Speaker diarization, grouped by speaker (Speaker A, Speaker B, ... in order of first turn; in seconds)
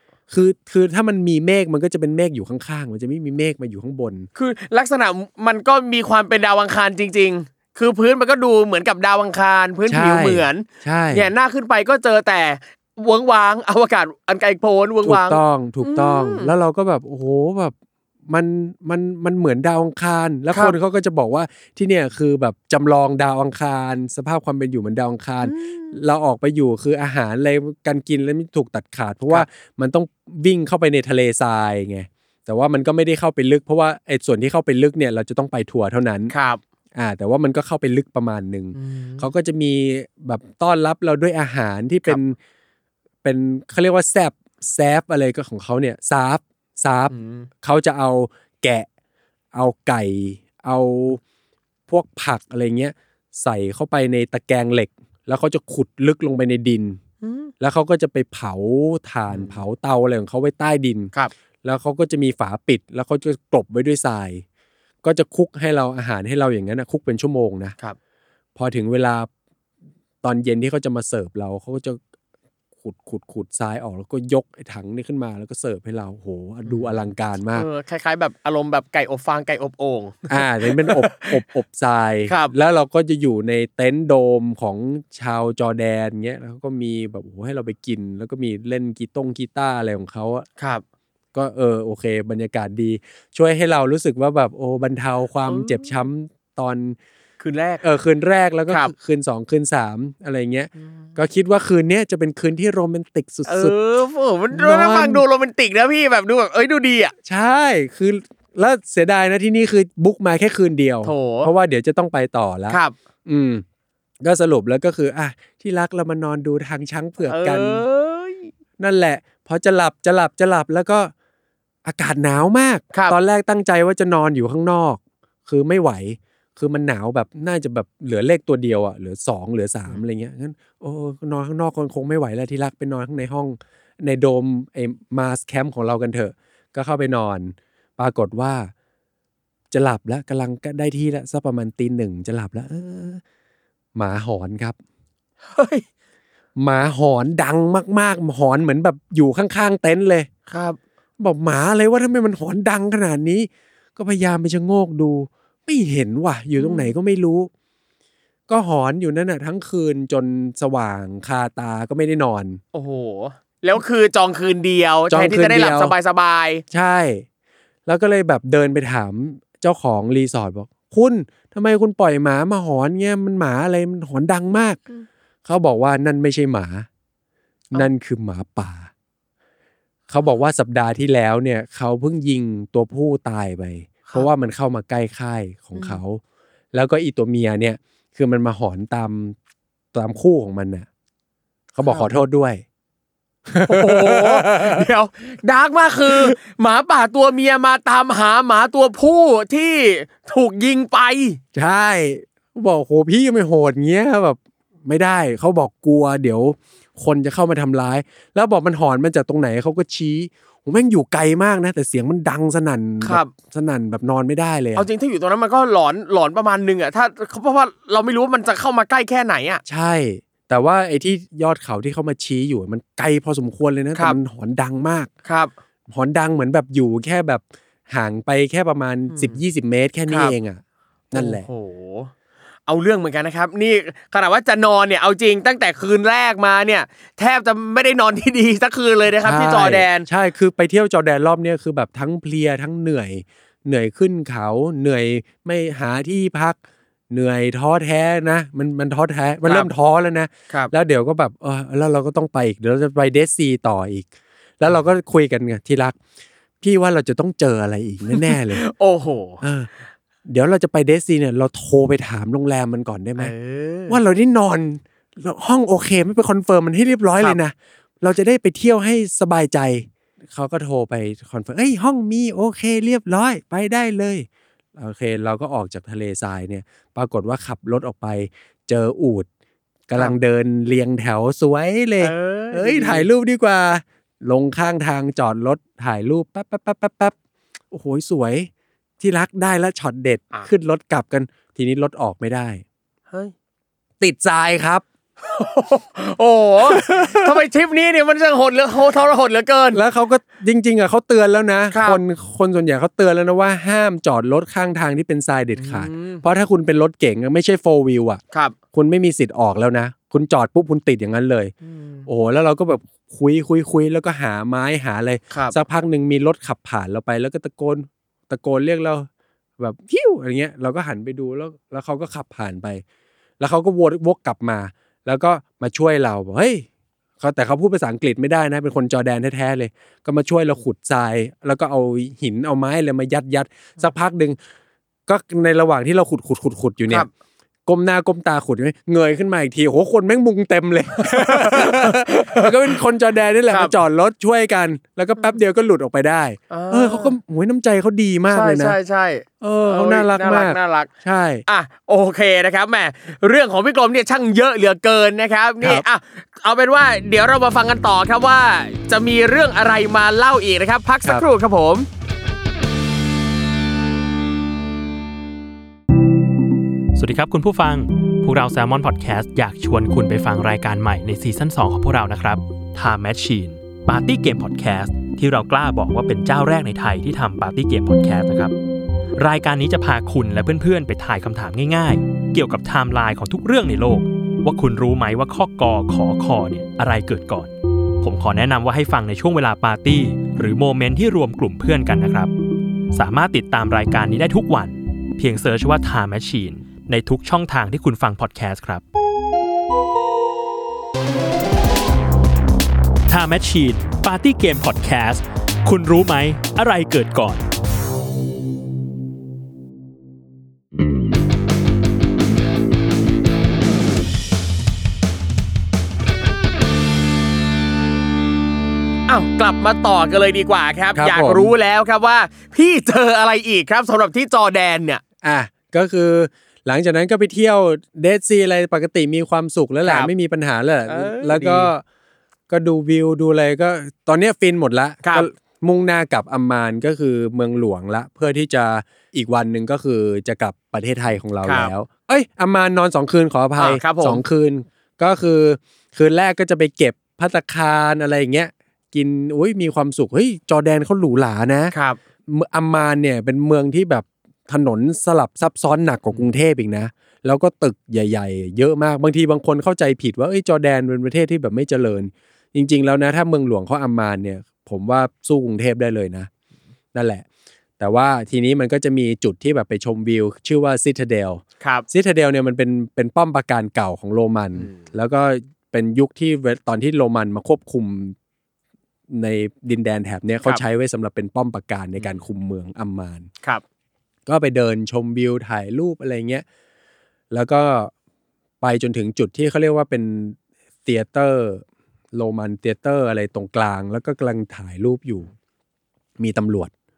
Speaker A: 0.3-4.3, 9.9-11.3, 15.0-17.8, 18.3-36.3, 37.0-42.4, 43.2-48.9, 49.5-51.2, 51.9-57.0, 57.6-61.1, 61.6-64.4, 65.0-67.8, 68.6-69.3, 70.2-72.0, 72.8-77.7, 80.3-90.5, 91.3-97.0, 97.8-103.8, 104.5-105.2, 107.2-113.6, 114.2-117.8, 118.8-121.1, 121.8-138.7, 139.7-143.2, 143.9-144.8, 146.6-150.3, 151.2-157.5, 158.5-162.6, 165.1-165.9, 166.7-167.2, 167.9-174.8, 175.4-176.9, 177.7-178.9, 180.1-186.2, 186.7-189.4, 189.9-190.9, 191.8-192.6, 193.5-194.9, 196.1-196.4, 201.5-214.9, 219.7-225.1, 225.9-231.5, 239.2-246.6, 247.1-254.1, 254.6-256.0, 256.6-258.6, 259.4-259.7, 260.3-263.4, 263.9-279.3, 279.9-287.2, 287.7-292.6, 294.0-294.9, 296.7-297.4, 299.7-308.2, 308.7-311.5, 312.1-319.1, 319.6-322.8, 323.4-326.7, 327.2-334.4, 335.1-337.1, 337.7-348.8, 349.4-351.4, 420.9-421.5, 425.2-431.8, 432.5-451.7, 452.3-466.3, 466.9-467.2, 467.8-478.2, 479.1-483.3, 484.3-486.4, 487.3-487.9, 488.6-495.3, 496.2-496.7
Speaker B: 4.4-16.5, 25.4-26.0, 36.3-36.6, 38.8-39.3, 47.1-47.5, 57.2-57.5, 59.3-59.6, 76.7-77.0, 77.5-81.4, 82.3-82.5, 90.6-90.8, 95.5-96.0, 97.4-97.8, 100.8-101.1, 103.5-107.1, 111.0-111.5, 117.2-118.5, 145.5-145.8, 150.5-150.8, 156.6-156.9, 162.7-166.6, 191.8-192.2, 193.6-201.4, 213.0-213.3, 214.8-219.6, 225.3-225.5, 229.1-229.4, 230.1-230.3, 231.1-232.1, 232.7-240.1, 249.4-249.7, 258.1-259.4, 263.2-264.0, 282.0-283.1, 295.2-299.8, 301.7-302.0, 305.6-306.2, 311.6-312.1, 315.3-315.6, 341.0-342.8, 346.5-347.1, 348.3-350.9, 351.5-361.9, 419.1-425.0, 429.9-430.1, 430.9-431.7, 441.4-441.7, 443.6-444.2, 451.7-452.0, 471.6-471.9, 474.6-474.9, 482.0-482.2
Speaker C: 366.9-378.5, 379.2-392.3, 392.9-398.8, 403.1-407.4